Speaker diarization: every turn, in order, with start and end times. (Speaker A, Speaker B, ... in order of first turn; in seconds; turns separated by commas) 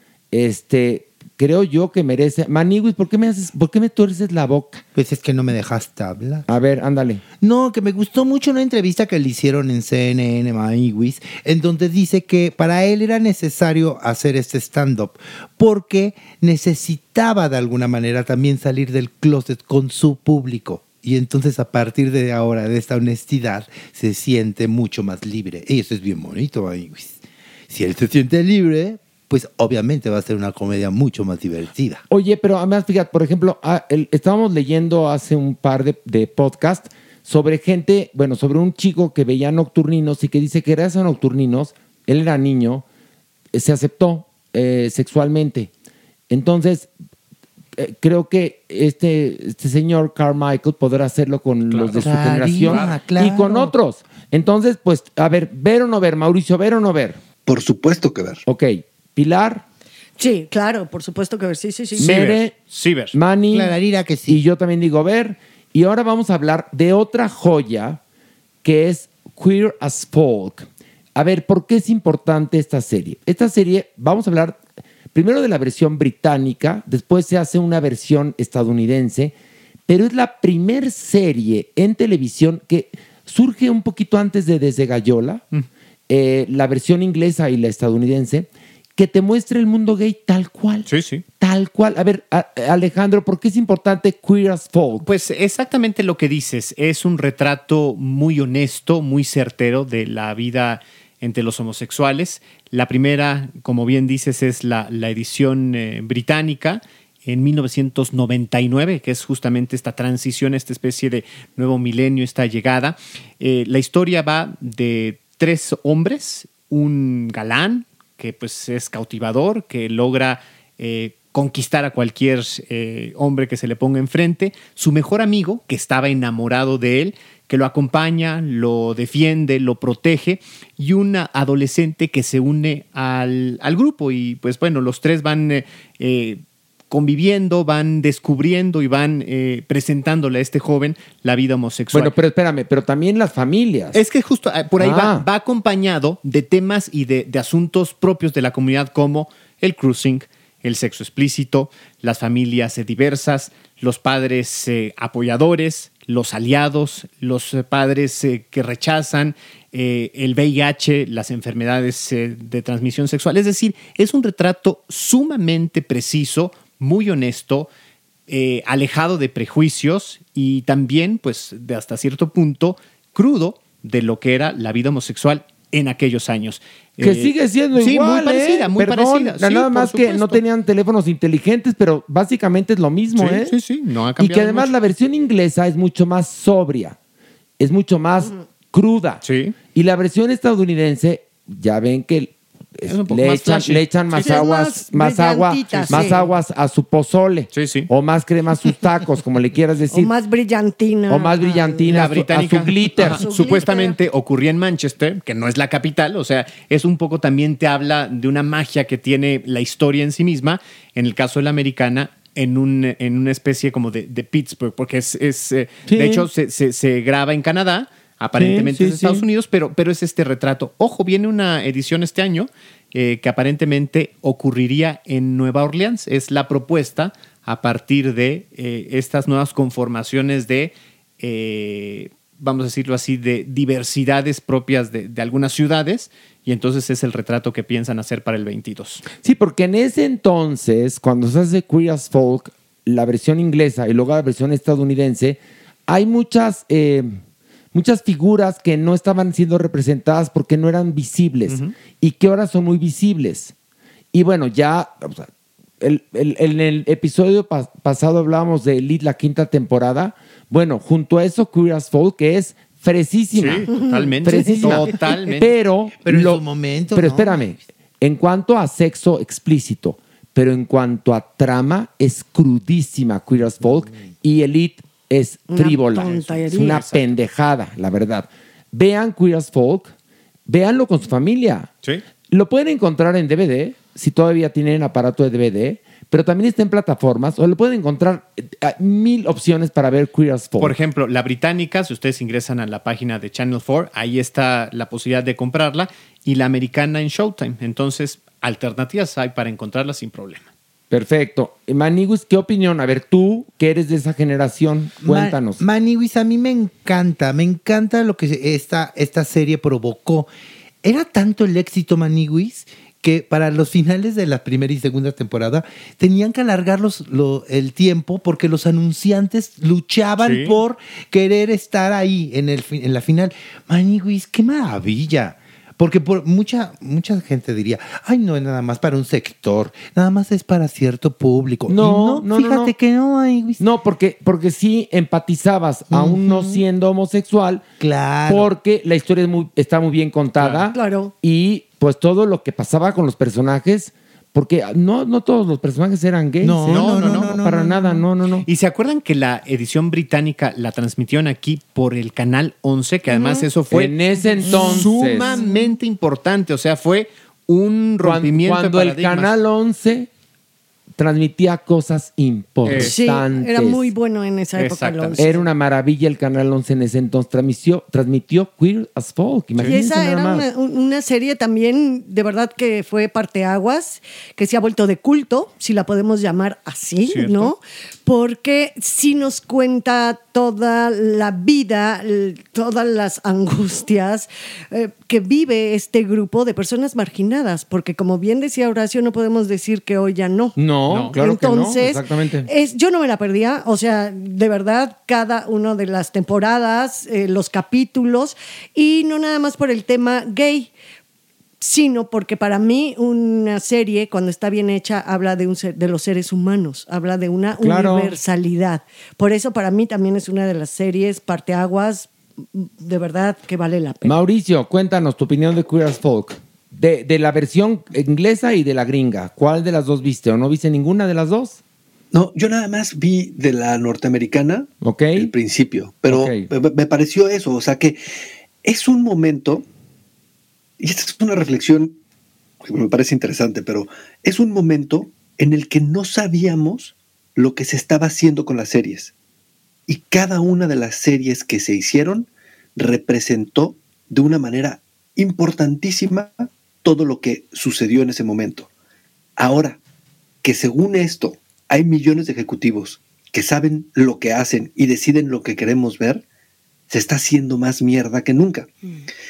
Speaker A: 0.3-4.8, Speaker B: 4.9-6.4, Speaker A: 6.5-7.2, Speaker B: 7.4-32.0, Speaker A: 32.1-42.8, Speaker A: 43.5-45.7, Speaker A: 46.3-46.9, Speaker A: 47.8-57.2, Speaker C: 51.7-53.0, Speaker B: 51.9-53.7, Speaker D: 57.5-58.4, Speaker A: 58.5-59.6, Speaker E: 60.2-62.1, Speaker A: 62.0-62.5, Speaker C: 62.0-63.1, Speaker A: 63.1-63.7, Speaker B: 63.5-64.4, Speaker A: 64.3-68.0, Speaker A: 68.6-74.6, Speaker A: 75.1-79.3, Speaker A: 79.9-85.4, Speaker A: 86.1-90.9, Speaker C: 90.9-91.2, Speaker A: 91.4-95.1, Speaker C: 95.0-142.1, Speaker A: 141.9-144.0, Speaker C: 143.9-167.7, Speaker A: 144.8-145.2, Speaker C: 168.3-180.4, Speaker A: 177.0-183.5, Speaker C: 183.2-184.7, Speaker A: 184.2-186.9, Speaker A: 187.6-200.1, Speaker C: 189.2-189.6, Speaker C: 192.8-194.4, Speaker E: 194.2-196.3, Speaker C: 195.7-196.2, Speaker C: 197.5-197.9, Speaker E: 199.9-202.1, Speaker A: 201.1-203.2, Speaker C: 201.9-239.0, Speaker E: 203.0-204.0, Speaker A: 215.9-216.3, Speaker A: 218.3-219.2, Speaker A: 239.2-247.2, Speaker A: 247.7-253.5, Speaker C: 251.5-251.7, Speaker A: 254.1-255.3, Speaker A: 255.8-266.4, Speaker C: 263.3-265.5, Speaker E: 263.7-264.6, Speaker B: 266.0-267.5, Speaker A: 266.9-279.9, Speaker E: 275.5-276.8, Speaker C: 275.9-277.0, Speaker A: 280.5-281.7, Speaker A: 282.3-290.8, Speaker C: 290.6-300.5, Speaker A: 300.9-305.6, Speaker B: 305.0-310.3, Speaker B: 310.8-333.6, Speaker C: 320.2-320.6, Speaker A: 331.7-332.7, Speaker A: 333.6-337.6, Speaker B: 335.9-336.6, Speaker B: 337.8-338.5, Speaker A: 338.3-348.5, Speaker C: 340.4-340.7, Speaker E: 340.7-341.1, Speaker B: 346.4-348.0, Speaker C: 346.7-347.3, Speaker C: 348.4-359.4, Speaker E: 353.1-353.5, Speaker A: 353.7-355.4, Speaker E: 354.4-354.8, Speaker E: 355.3-355.5, Speaker A: 358.0-360.1, Speaker A: 361.0-363.9, Speaker C: 362.6-362.9, Speaker E: 362.8-365.4, Speaker C: 364.6-365.2, Speaker A: 365.2-370.4, Speaker E: 369.7-390.6, Speaker C: 377.1-377.5, Speaker A: 390.6-392.5, Speaker C: 390.9-391.1, Speaker E: 391.1-400.7, Speaker E: 401.6-414.2, Speaker A: 407.6-408.1, Speaker A: 414.0-421.6, Speaker D: 422.1-428.0, Speaker A: 424.8-425.3, Speaker A: 426.1-426.5, Speaker D: 428.6-429.6, Speaker D: 430.8-432.0, Speaker D: 432.6-439.1, Speaker D: 439.9-448.7, Speaker D: 449.4-449.8, Speaker D: 450.4-456.2, Speaker D: 456.9-458.7